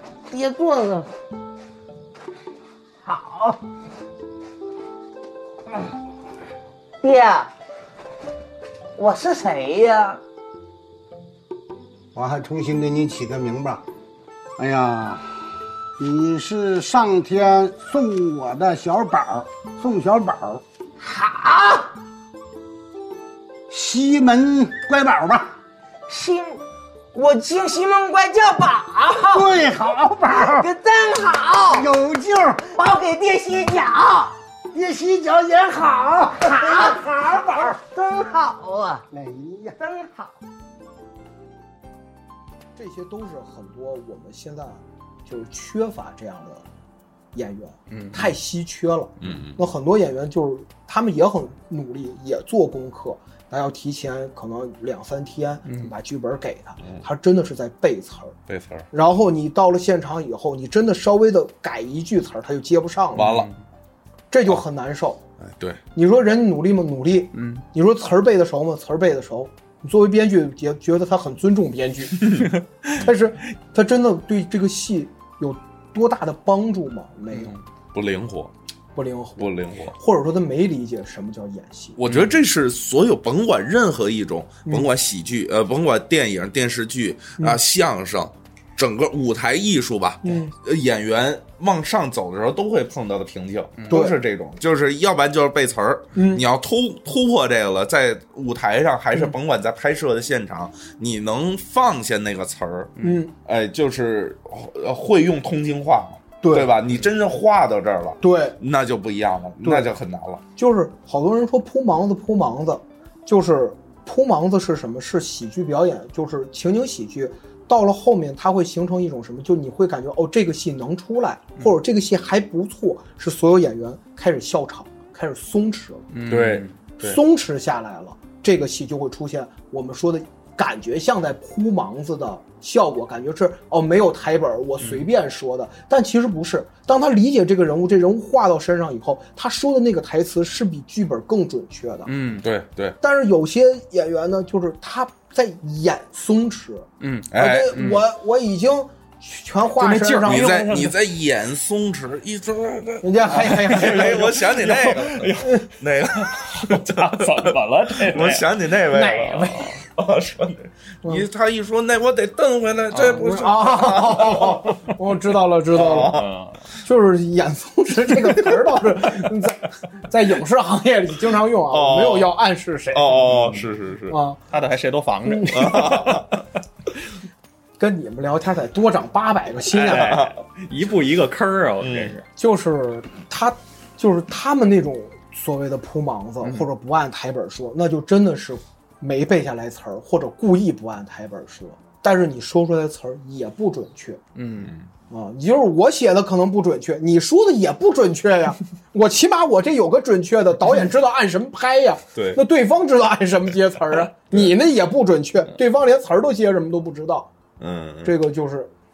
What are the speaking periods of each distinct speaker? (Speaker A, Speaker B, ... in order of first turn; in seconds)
Speaker A: 0.3-1.1, 3.0-3.6, 7.0-7.5, 8.9-10.2, 21.0-21.9, 26.1-29.6, 30.4-31.9, 32.7-34.4, 35.8-39.0, 39.8-40.3
Speaker B: 12.1-13.8, 14.6-20.6, 23.7-25.6, 29.3-30.7, 31.7-32.7, 34.7-37.8, 39.1-39.8
Speaker C: 42.8-46.7, 47.3-58.4, 58.9-63.3, 64.3-65.2, 66.0-72.5, 73.0-77.5, 79.0-82.0, 90.2-90.5, 93.9-94.1, 96.1-96.5, 103.0-103.3, 106.4-106.7, 108.2-108.6, 109.6-109.9, 110.6-126.1, 127.0-142.1, 143.0-150.5, 153.0-155.6, 158.9-159.7, 163.2-166.2, 166.8-173.3, 174.1-174.4, 175.3-175.9, 177.8-180.2, 182.4-194.2, 195.1-207.3, 208.0-208.7
Speaker D: 47.9-48.3, 55.7-55.9, 63.1-63.6, 67.3-67.6, 72.4-73.0, 77.3-77.6, 82.1-82.3, 126.1-126.8, 134.8-135.1, 142.1-142.4, 147.0-148.1, 149.8-150.9, 153.6-158.5, 162.9-163.3, 166.1-166.6, 173.3-173.7, 174.5-176.3, 179.7-182.3, 194.3-194.7
Speaker E: 49.2-49.6, 58.5-58.9, 63.1-63.5, 65.4-65.8, 77.9-78.5, 79.4-80.0, 82.0-102.9, 103.5-110.4, 126.3-127.2, 142.4-142.9, 147.3-147.8, 150.2-164.8, 165.7-166.3, 171.7-172.3, 172.9-174.2, 175.5-176.3, 179.9-180.3, 181.8-182.1, 194.6-194.9, 202.1-202.4, 207.6-208.1